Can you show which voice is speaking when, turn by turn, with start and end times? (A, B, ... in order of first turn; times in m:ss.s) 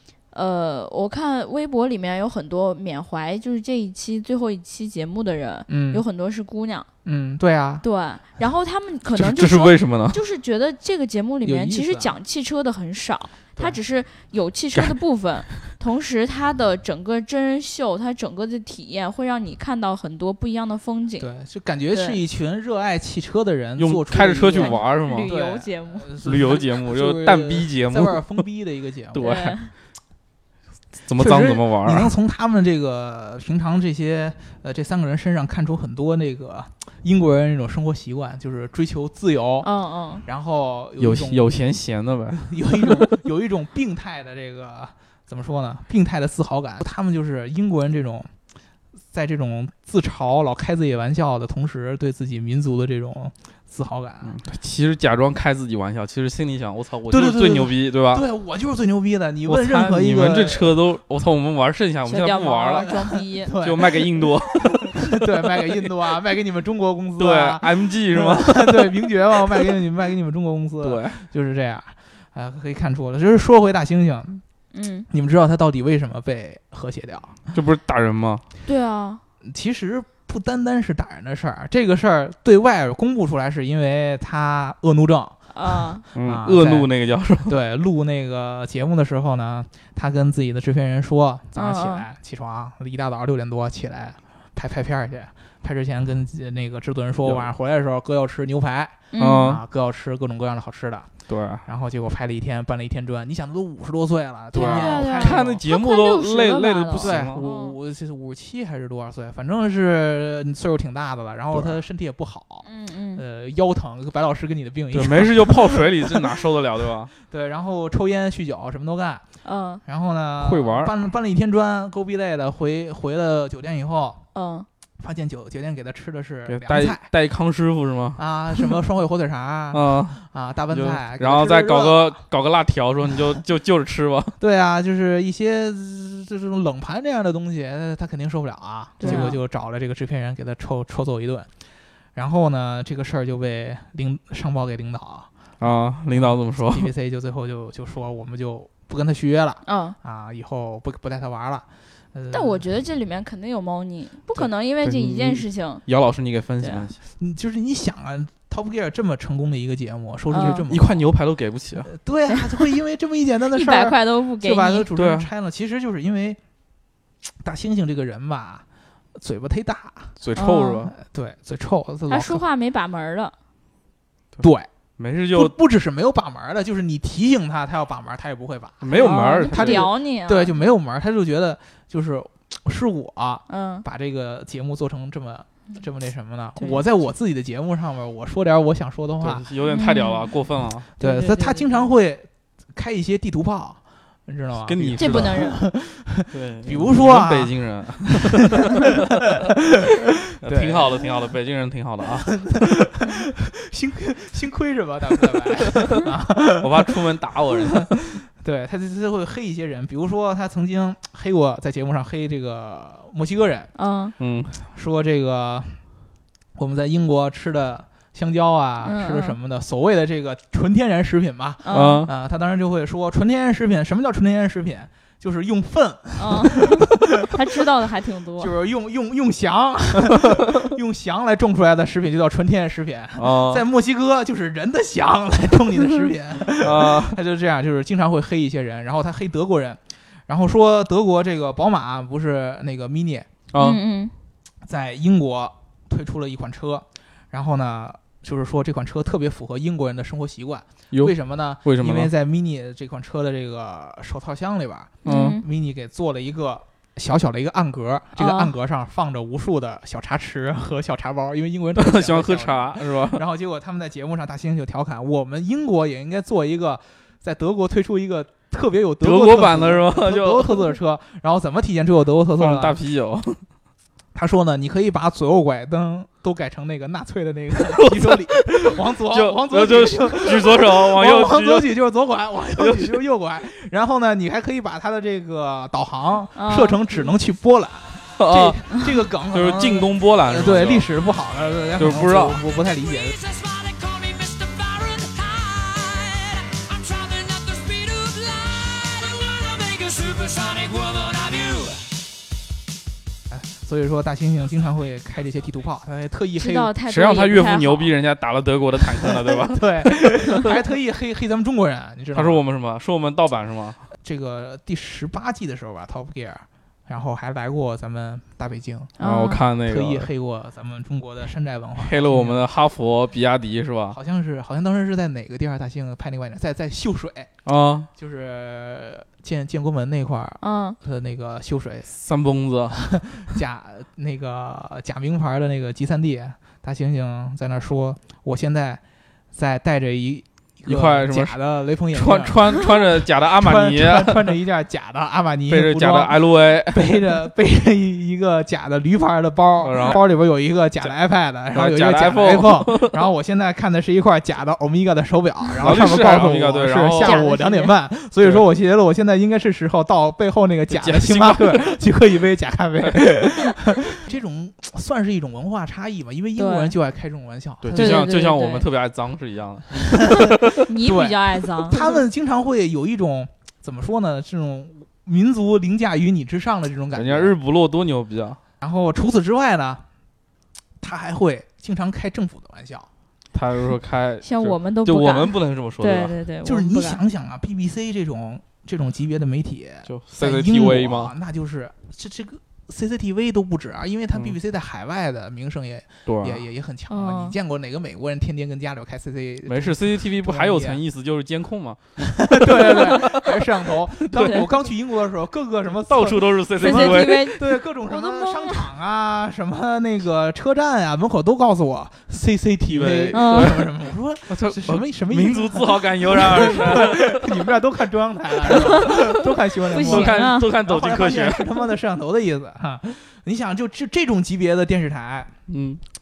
0:00.3-0:06.9 A
0:05.7-0:06.0 B
0:07.0-0:07.8 B
0:07.8-0:21.3 A
0:09.1-0:10.2 C
0:11.4-0:12.1 B
0:21.2-0:29.4 B
0:21.9-0:22.2 A
0:23.8-0:25.3 C
0:24.5-0:26.1 A
0:26.2-0:28.4 C
0:29.1-0:29.6 C
0:29.2-0:29.7 A
0:31.1-0:32.1 C
0:31.2-0:39.7 B
0:39.6-0:40.2 A
0:40.2-0:41.5 B
0:41.0-0:43.0 C
0:42.4-0:48.3 B
0:49.1-0:54.4 B
0:54.2-0:58.2 C
0:57.1-1:00.7 B
0:59.4-1:03.0 C
1:02.0-1:03.5 A
1:02.8-1:14.4 B
1:03.6-1:05.8 C
1:07.2-1:09.1 C
1:10.8-1:11.2 C
1:14.7-1:15.1 A
1:15.1-1:17.4 B
1:17.5-1:18.4 C
1:18.6-1:19.2 A
1:19.4-1:26.9 B
1:25.5-1:26.0 A
1:26.1-1:27.5 C
1:27.4-1:41.1 B
1:31.5-1:32.0 A
1:39.1-1:39.5 A
1:39.2-1:39.6 C
1:41.3-1:41.6 C
1:41.6-1:45.6 B
1:44.5-1:47.4 C
1:44.5-1:47.8 A
1:47.0-1:55.8 B
1:52.6-1:53.2 A
1:54.9-1:57.1 C
1:57.2-1:59.2 B
1:59.4-1:59.8 A
1:59.8-2:04.2 B
2:00.4-2:00.9 C
2:04.3-2:04.7 A
2:05.0-2:07.1 B
2:06.5-2:08.2 C
2:08.2-2:12.2 B
2:09.7-2:14.4 C
2:14.4-2:21.5 B
2:19.0-2:19.4 A
2:19.0-2:19.3 C
2:22.1-2:25.3 B
2:25.6-2:26.9 C
2:26.1-2:32.6 B
2:29.6-2:30.0 A
2:32.3-2:35.8 A
2:34.8-2:37.0 C
2:36.6-2:36.9 A
2:37.2-2:41.0 B
2:40.3-2:40.6 A
2:40.4-2:41.9 C
2:41.8-2:46.4 B
2:43.5-2:44.9 A
2:44.9-2:45.3 C
2:47.4-2:50.2 B
2:50.2-2:50.9 C
2:50.4-2:50.9 A
2:51.0-2:52.4 B
2:52.1-2:53.3 A
2:54.4-2:54.7 B
2:55.0-2:55.5 C
2:55.3-3:09.4 B
2:58.8-2:59.9 C
2:58.9-3:00.6 A
3:03.5-3:03.8 A
3:06.6-3:06.8 A
3:09.2-3:10.9 C
3:09.7-3:10.4 A
3:11.0-3:11.9 A
3:11.0-3:17.5 B
3:14.6-3:15.5 C
3:15.0-3:15.6 A
3:16.3-3:19.0 C
3:20.4-3:21.2 B
3:20.4-3:22.4 C
3:22.2-3:27.0 B
3:25.8-3:26.0 C
3:26.6-3:27.9 C
3:28.3-3:33.7 B
3:33.8-3:34.1 A
3:34.2-3:34.5 C
3:34.6-3:35.8 B
3:36.6-3:47.3 B
3:38.8-3:39.4 A
3:41.6-3:42.1 A
3:41.7-3:42.1 C
3:46.2-3:48.5 A
3:48.4-4:03.3 B
3:53.2-3:53.6 C
3:56.6-3:57.2 C
4:03.5-4:03.8 C
4:03.6-4:04.1 A
4:04.6-4:32.8 B
4:10.9-4:12.1 C
4:15.0-4:15.4 A
4:15.0-4:15.4 C
4:18.2-4:18.5 A
4:21.8-4:23.2 C
4:29.0-4:30.7 C
4:32.4-4:33.4 C
4:34.1-4:53.2 B
4:37.8-4:38.5 C
4:39.1-4:41.7 C
4:42.6-4:43.0 C
4:46.4-4:47.0 A
4:48.2-4:48.6 C
4:49.3-4:50.9 C
4:51.8-4:52.4 C
4:53.0-5:02.0 D
5:03.3-5:06.7 B
5:06.4-5:07.9 A
5:06.8-5:09.9 C
5:09.5-5:12.4 B
5:12.1-5:13.8 C
5:14.0-5:18.9 B
5:19.0-5:19.4 A
5:19.0-5:20.1 C
5:19.6-5:22.4 B
5:21.8-5:24.0 C
5:23.9-5:27.3 B
5:27.4-5:27.9 C
5:28.0-5:31.9 B
5:30.4-5:30.8 A
5:31.9-5:33.0 C
5:32.8-5:42.8 B
5:40.6-5:41.4 C
5:41.9-5:44.3 C
5:43.3-6:08.0 B
5:45.5-5:47.0 C
5:49.6-5:50.0 C
5:51.5-5:52.9 C
5:55.6-5:57.2 C
5:57.0-5:57.8 A
6:00.7-6:01.8 C
6:06.4-6:06.7 A
6:07.6-6:10.5 C
6:07.8-6:08.6 A
6:10.1-6:17.3 B
6:10.5-6:12.0 A
6:16.9-6:18.4 C
6:18.6-6:19.8 B
6:20.8-6:22.9 B
6:23.3-6:26.2 C
6:24.2-6:27.0 A
6:26.4-6:40.8 B
6:29.9-6:31.1 C
6:36.0-6:36.4 C
6:36.9-6:37.4 A
6:39.4-6:43.1 C
6:42.3-7:05.3 B
6:44.1-6:44.4 C
6:44.2-6:44.5 A
6:45.9-6:47.3 C
6:46.6-6:48.7 A
6:52.7-6:53.6 C
6:53.1-6:53.6 A
6:54.3-6:57.5 C
6:58.5-6:59.0 C
6:59.7-7:00.5 A
6:59.8-7:01.5 C
7:05.5-7:05.8 C